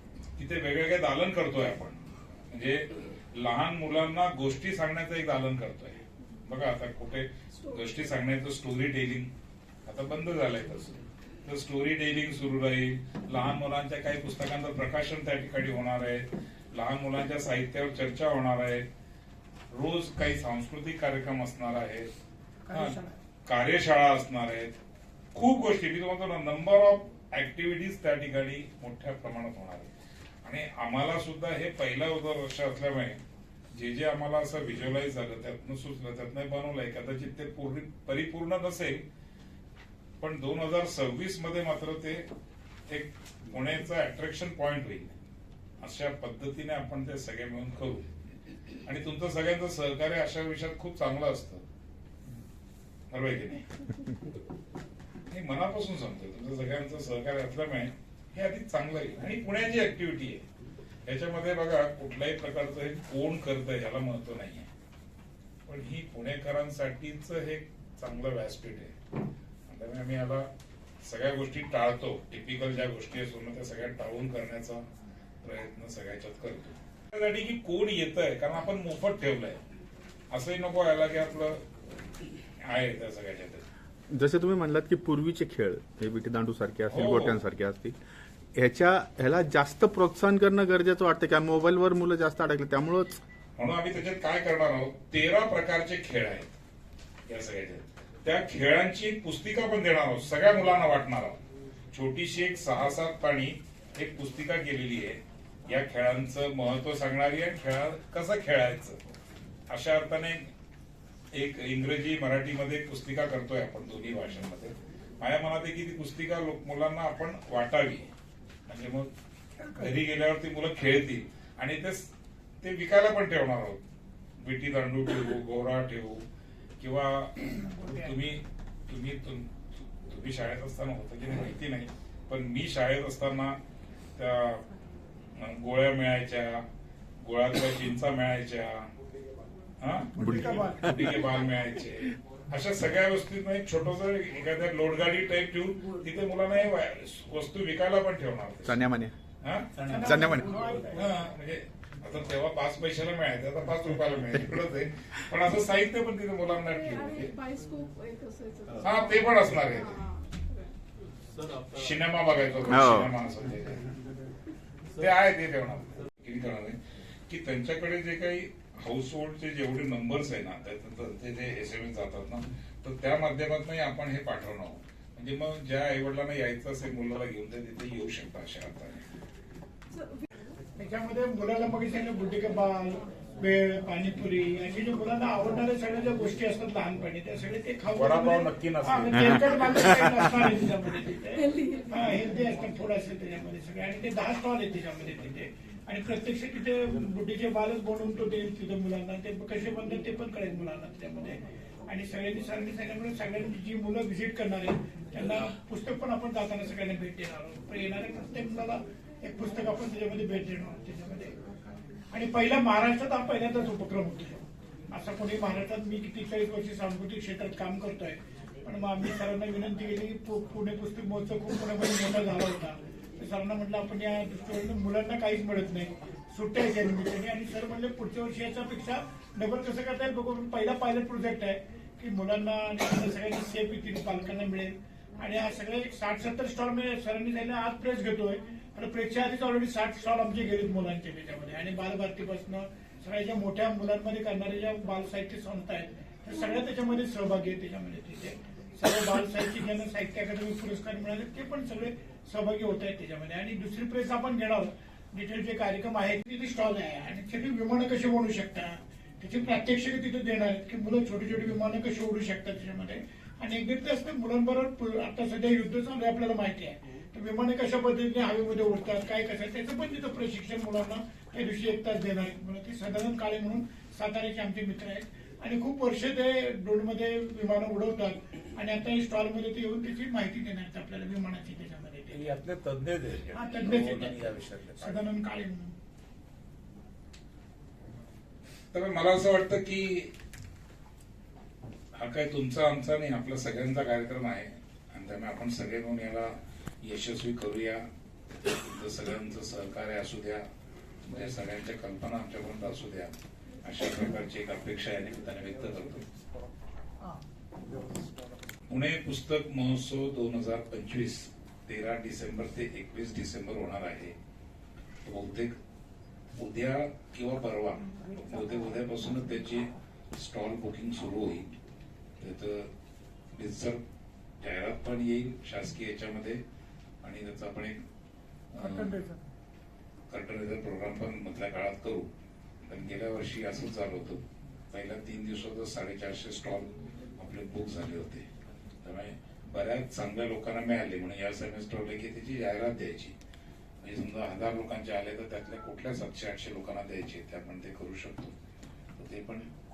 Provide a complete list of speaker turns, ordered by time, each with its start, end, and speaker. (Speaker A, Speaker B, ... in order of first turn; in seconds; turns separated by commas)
Speaker A: 0.4-9.3, Speaker A: 9.8-18.9, Speaker A: 19.7-22.1, Speaker B: 22.6-23.1, Speaker A: 23.4-24.7, Speaker A: 25.3-29.9, Speaker A: 30.4-33.2, Speaker A: 33.7-39.0, Speaker A: 40.2-42.3, Speaker A: 42.9-45.1, Speaker A: 45.8-48.0, Speaker A: 48.9-51.6, Speaker A: 53.1-53.6, Speaker A: 55.3-60.4, Speaker A: 61.0-64.7, Speaker A: 65.7-68.9, Speaker A: 69.7-70.5, Speaker A: 71.0-74.8, Speaker A: 75.4-79.6, Speaker A: 80.3-81.6, Speaker A: 82.6-83.6, Speaker C: 84.1-88.0, Speaker A: 86.9-87.4, Speaker C: 88.5-93.2, Speaker A: 93.6-96.5, Speaker A: 97.3-101.4, Speaker A: 101.9-109.0, Speaker A: 109.7-110.5, Speaker A: 111.3-118.1, Speaker A: 118.7-119.1, Speaker A: 119.7-122.1, Speaker A: 122.6-123.8, Speaker A: 124.4-126.2, Speaker A: 126.8-133.6, Speaker B: 127.5-128.2, Speaker A: 134.2-134.6, Speaker A: 135.3-136.6, Speaker A: 137.2-138.9, Speaker A: 139.8-148.8, Speaker C: 140.2-141.2, Speaker B: 140.2-141.0, Speaker C: 148.6-149.1, Speaker A: 149.4-150.3, Speaker B: 149.8-151.1, Speaker C: 150.0-150.5, Speaker A: 150.9-157.3, Speaker D: 156.7-160.7, Speaker A: 158.8-160.1, Speaker A: 161.7-163.9, Speaker C: 162.7-163.1, Speaker A: 164.9-166.8, Speaker A: 167.3-179.0, Speaker D: 179.9-180.3, Speaker B: 180.8-211.3, Speaker A: 187.9-189.9, Speaker B: 212.1-214.3, Speaker B: 214.9-282.1, Speaker A: 282.1-285.0, Speaker B: 283.3-285.7, Speaker A: 288.7-290.1, Speaker A: 291.9-297.8, Speaker A: 298.6-300.4, Speaker A: 301.1-306.1, Speaker A: 308.7-314.1, Speaker A: 315.0-315.5, Speaker A: 316.4-321.5, Speaker A: 322.2-322.7, Speaker A: 323.3-323.8, Speaker A: 324.4-326.4, Speaker A: 327.0-327.8, Speaker A: 328.5-329.0, Speaker B: 328.6-329.2, Speaker A: 330.1-332.1, Speaker A: 332.6-338.2, Speaker A: 338.8-343.1, Speaker A: 343.8-348.3, Speaker A: 348.9-349.5